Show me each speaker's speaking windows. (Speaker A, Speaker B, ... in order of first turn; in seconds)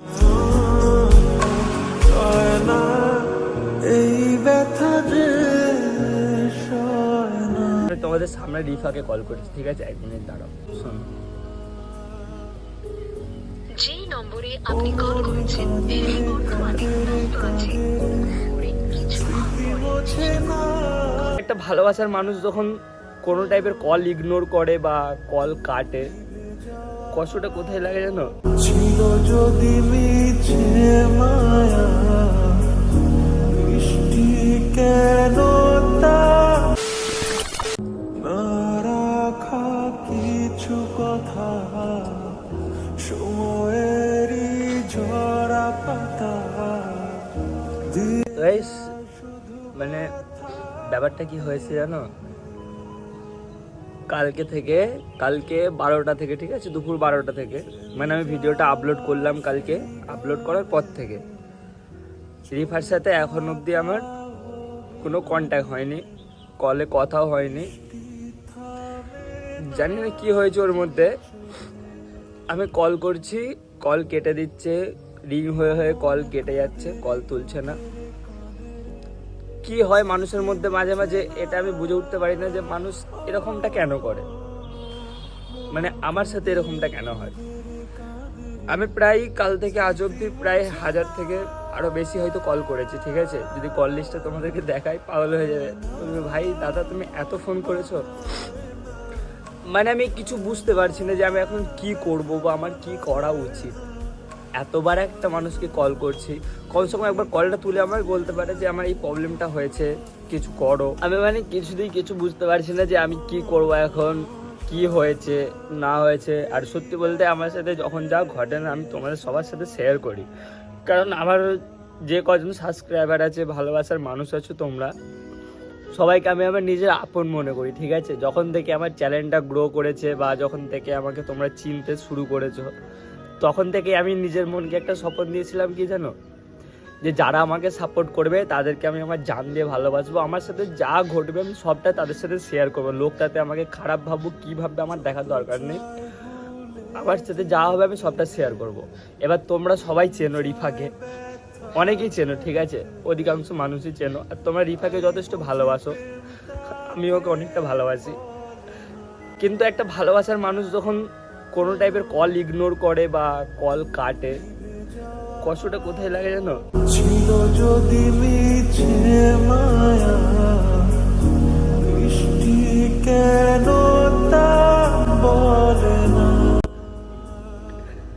Speaker A: 0.2-7.8, 28.6-32.8, 33.4-36.8, 38.1-48.2, 166.9-176.6
Speaker B: 7.9-11.1, 21.4-22.7, 23.2-26.1, 27.1-28.2, 48.3-48.9, 49.7-50.1, 50.9-52.1, 54.1-61.2, 62.5-64.0, 65.0-66.0, 66.6-67.7, 69.7-71.1, 72.5-74.8, 75.3-77.8, 79.6-84.2, 85.7-87.3, 88.7-98.0, 99.7-103.8, 104.6-120.3, 120.9-121.5, 122.1-124.9, 125.9-132.7, 133.4-136.1, 137.0-145.8, 147.0-150.9, 151.7-155.9, 156.9-158.2, 159.4-161.0, 161.5-164.4, 165.4-166.5
Speaker C: 13.8-21.3